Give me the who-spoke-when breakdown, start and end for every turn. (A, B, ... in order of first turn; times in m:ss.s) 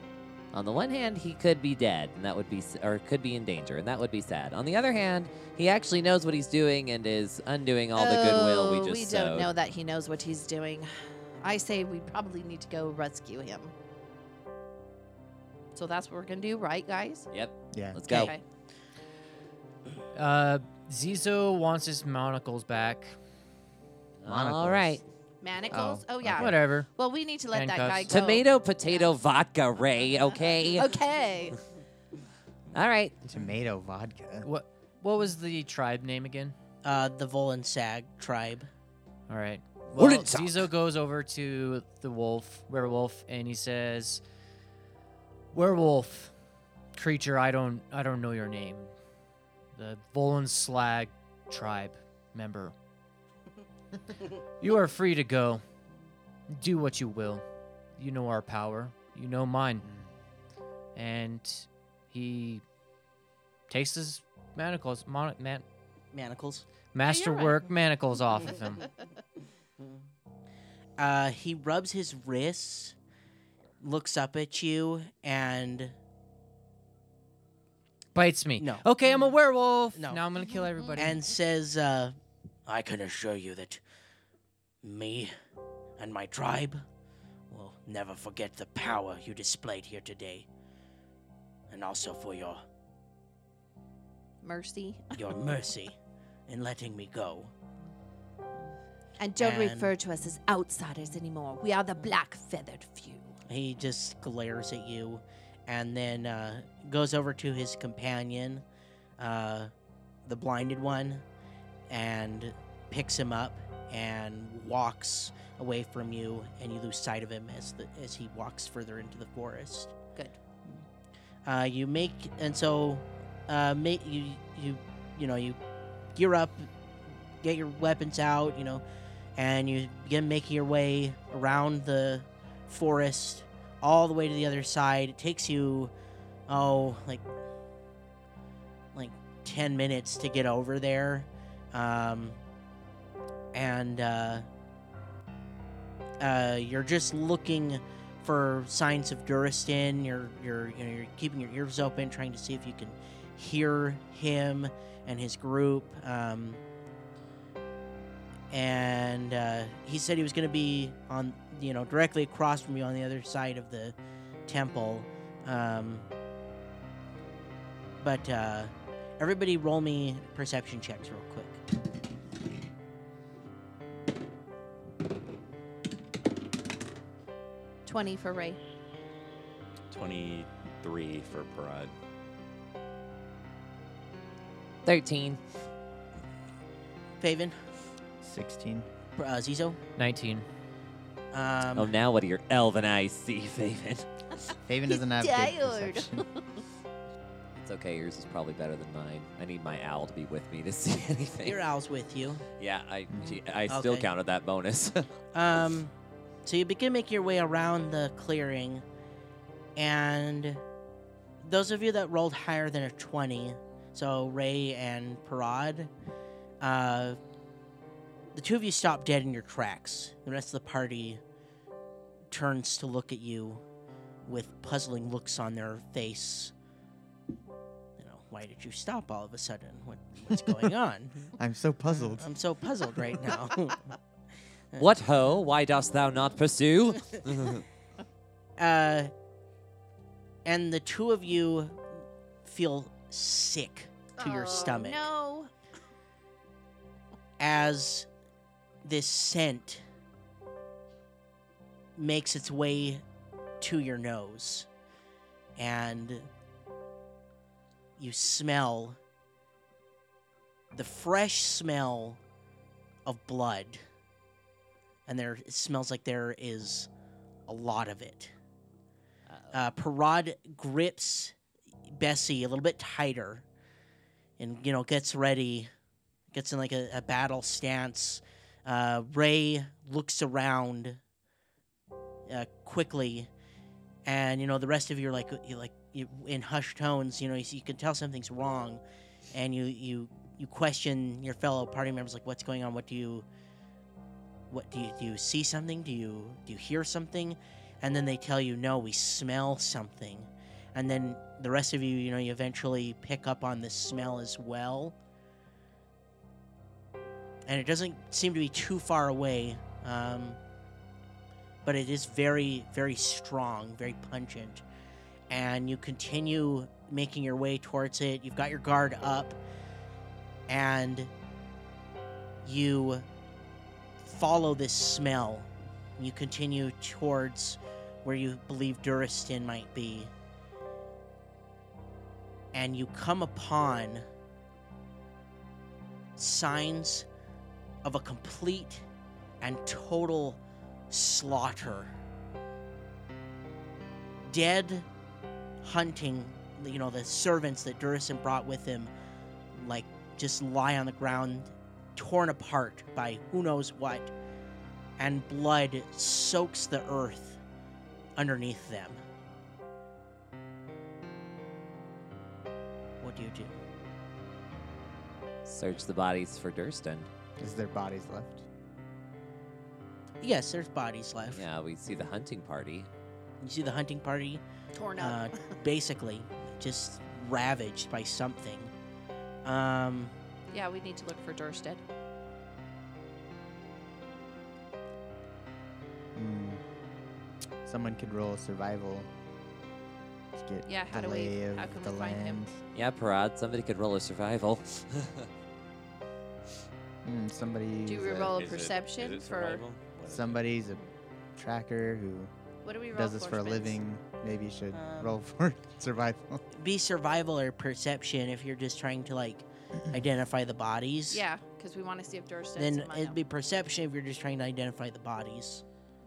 0:00.5-0:09.5 A
0:08.0-0:13.7 B
0:15.8-0:17.3 B
0:17.3-0:18.3 A
0:17.7-0:18.3 C
0:18.1-0:18.4 B
0:20.2-0:23.2 D
0:24.2-0:25.0 A
0:24.2-0:25.0 C
0:25.4-0:29.1 B
0:25.7-0:26.6 C
0:26.4-0:26.9 D
0:27.5-0:28.2 D
0:28.1-0:31.0 A
0:30.7-0:31.6 B
0:32.7-0:33.2 A
0:33.2-0:34.5 C
0:34.4-0:36.6 D
0:36.8-0:38.7 E
0:39.3-0:44.2 D
0:40.0-0:40.3 A
0:45.5-0:46.3 D
0:47.0-0:48.9 D
0:49.8-0:52.8 D
0:54.6-0:55.6 D
0:56.5-0:57.4 D
0:58.0-0:59.9 D
1:01.0-1:02.6 D
1:03.7-1:05.6 D
1:06.1-1:06.7 E
1:06.9-1:08.9 D
1:07.1-1:07.7 B
1:11.0-1:13.0 E
1:13.8-1:16.0 E
1:18.1-1:21.2 D
1:18.6-1:18.8 E
1:19.9-1:20.2 E
1:21.0-1:22.2 E
1:22.7-1:23.8 E
1:24.8-1:25.3 E
1:26.0-1:26.8 E
1:27.5-1:30.5 E
1:31.7-1:32.6 E
1:34.4-1:35.4 B
1:35.2-1:36.0 E
1:36.5-1:37.5 E
1:39.2-1:43.4 B
1:39.4-1:39.9 E
1:43.5-1:48.6 E
1:49.2-1:49.7 E
1:50.3-1:51.2 E
1:51.9-2:00.0 E
2:01.4-2:05.6 E
2:06.2-2:06.7 E
2:07.3-2:08.8 E
2:09.4-2:15.9 E
2:16.5-2:17.3 E
2:18.9-2:22.4 E
2:23.5-2:24.5 E
2:26.2-2:36.6 E
2:38.5-2:44.0 E
2:44.5-2:46.1 E
2:48.0-2:51.6 E
2:57.8-2:58.6 B
2:59.9-3:01.9 F
3:04.8-3:05.4 A
3:07.2-3:07.6 E
3:08.2-3:08.9 C
3:09.2-3:09.8 E
3:10.0-3:10.5 D
3:11.3-3:11.9 E
3:11.8-3:14.1 A
3:14.7-3:16.3 C
3:14.9-3:16.2 B
3:17.6-3:21.6 A
3:21.4-3:22.4 E
3:22.6-3:25.1 A
3:23.1-3:23.4 C
3:23.7-3:24.1 E
3:25.3-3:25.9 E
3:26.4-3:28.8 E
3:29.8-3:30.6 E
3:31.4-3:35.9 E
3:36.6-3:37.2 E
3:38.3-3:41.2 E
3:42.3-3:43.6 E
3:44.3-3:46.5 E
3:48.0-3:51.3 E
3:51.4-3:52.3 C
3:52.1-3:53.8 E
3:54.8-3:57.6 A
3:58.6-3:59.1 E
4:00.4-4:01.8 E
4:02.4-4:05.1 E
4:04.2-4:05.5 B
4:07.4-4:08.1 E
4:08.8-4:09.8 E
4:12.0-4:13.0 E
4:13.6-4:14.7 E
4:15.6-4:16.3 E
4:18.0-4:19.0 E
4:20.7-4:22.2 E
4:23.1-4:23.8 E
4:25.1-4:26.9 E
4:27.5-4:28.3 E
4:29.3-4:29.7 A
4:29.5-4:31.4 E
4:31.9-4:33.4 E
4:34.4-4:35.7 E
4:36.3-4:41.0 E
4:42.3-4:43.3 E
4:44.0-4:53.3 E
4:54.5-5:05.0 E
5:07.5-5:10.4 E
5:11.6-5:14.6 E
5:15.3-5:19.4 E
5:20.5-5:21.1 E
5:22.4-5:23.1 E
5:24.0-5:30.1 E
5:32.5-5:34.1 E
5:36.2-5:37.1 E
5:37.8-5:38.8 E
5:39.4-5:41.9 E
5:44.2-5:44.9 E
5:45.6-5:48.9 E
5:49.5-5:54.1 E
5:55.0-5:57.4 E
5:58.2-5:59.0 E
6:03.0-6:03.6 E
6:05.5-6:07.1 A
6:07.4-6:08.4 C
6:10.2-6:11.4 E
6:11.3-6:12.9 A
6:13.4-6:14.4 E
6:14.8-6:15.5 B
6:15.0-6:18.7 E
6:19.4-6:20.2 E
6:20.5-6:21.8 B
6:26.2-6:26.6 C
6:27.6-6:29.1 C
6:30.4-6:32.6 C
6:30.7-6:32.4 B
6:32.8-6:35.3 A
6:37.0-6:38.4 C
6:37.9-6:39.6 B
6:38.2-6:40.4 F
6:40.1-6:40.8 C
6:41.4-6:42.3 C
6:42.6-6:43.8 B
6:42.9-6:46.4 C
6:44.7-6:45.2 E
6:46.5-6:51.2 E
6:51.1-6:53.2 B
6:52.6-6:55.6 E